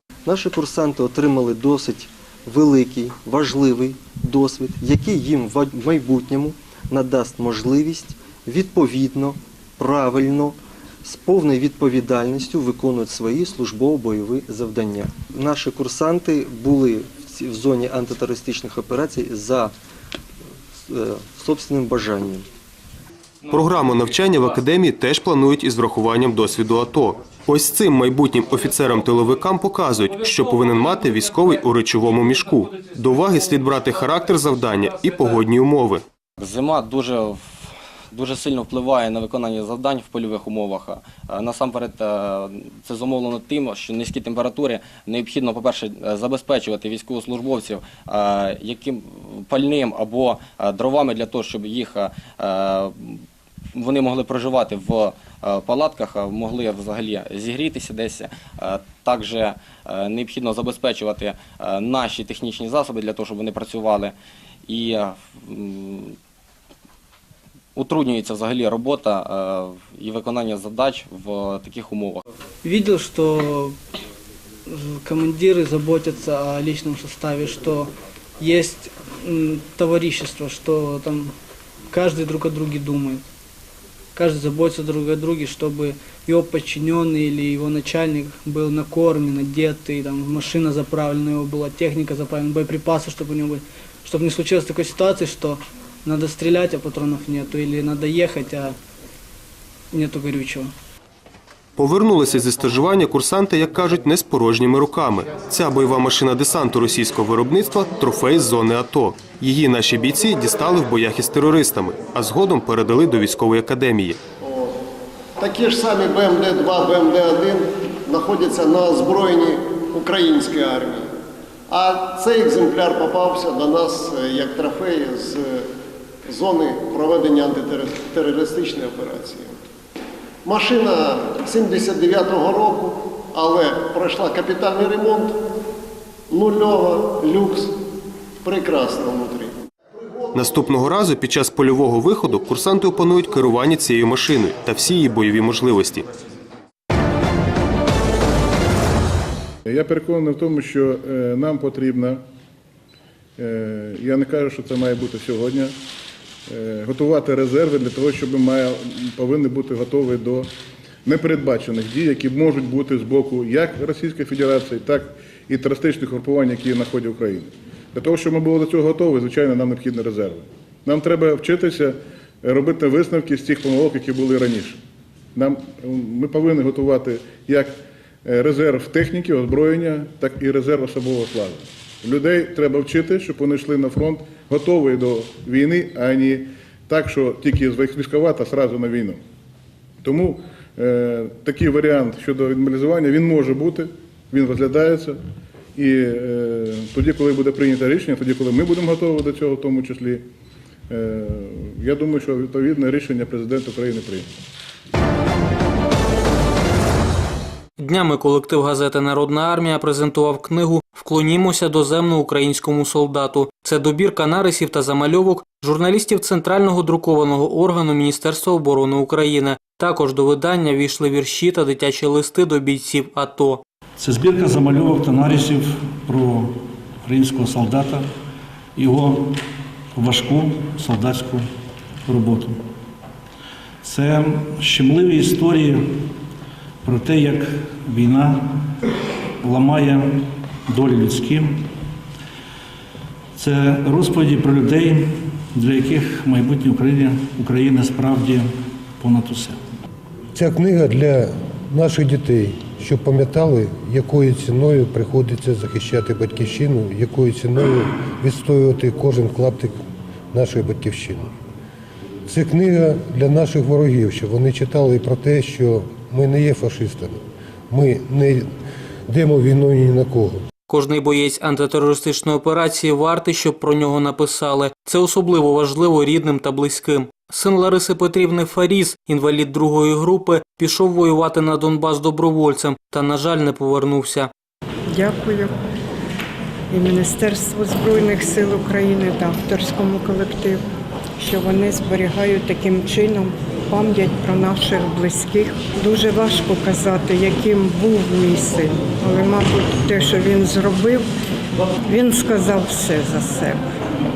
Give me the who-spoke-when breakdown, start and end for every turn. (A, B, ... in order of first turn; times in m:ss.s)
0:00.3-0:19.7 A
0:20.9-0:22.4 A
0:23.5-0:36.0 B
0:36.4-0:37.4 C
0:38.1-0:53.2 C
0:53.7-1:04.1 C
1:04.7-1:06.1 C
1:07.8-1:12.2 C
1:12.6-1:13.8 D
1:14.6-1:21.3 D
1:21.9-1:23.3 D
1:24.2-1:38.8 D
1:39.9-1:40.7 D
1:41.8-1:54.2 B
1:54.4-1:54.7 E
1:55.4-2:01.1 E
2:01.7-2:05.7 E
2:06.3-2:09.6 E
2:10.4-2:15.4 E
2:16.3-2:17.7 E
2:18.4-2:19.5 E
2:20.3-2:26.0 B
2:29.6-2:32.2 F
2:33.4-2:35.8 F
2:36.5-2:40.5 F
2:41.0-2:54.8 F
2:55.3-3:09.2 F
3:10.0-3:15.2 F
3:15.7-3:20.3 F
3:20.9-3:24.3 F
3:27.8-3:43.6 G
3:44.0-3:48.0 H
3:48.8-3:49.4 H
3:49.9-3:51.4 H
3:52.0-3:52.6 H
3:53.8-3:55.9 H
3:56.8-3:58.6 H
3:59.4-4:01.6 H
4:03.4-4:08.5 H
4:09.0-4:09.6 H
4:10.3-4:21.3 I
4:22.3-4:27.2 I
4:27.7-4:28.5 I
4:29.1-4:30.4 I
4:30.7-4:44.3 G
4:44.9-4:45.5 J
4:46.7-4:50.6 J
4:51.2-5:01.0 J
5:01.8-5:03.6 J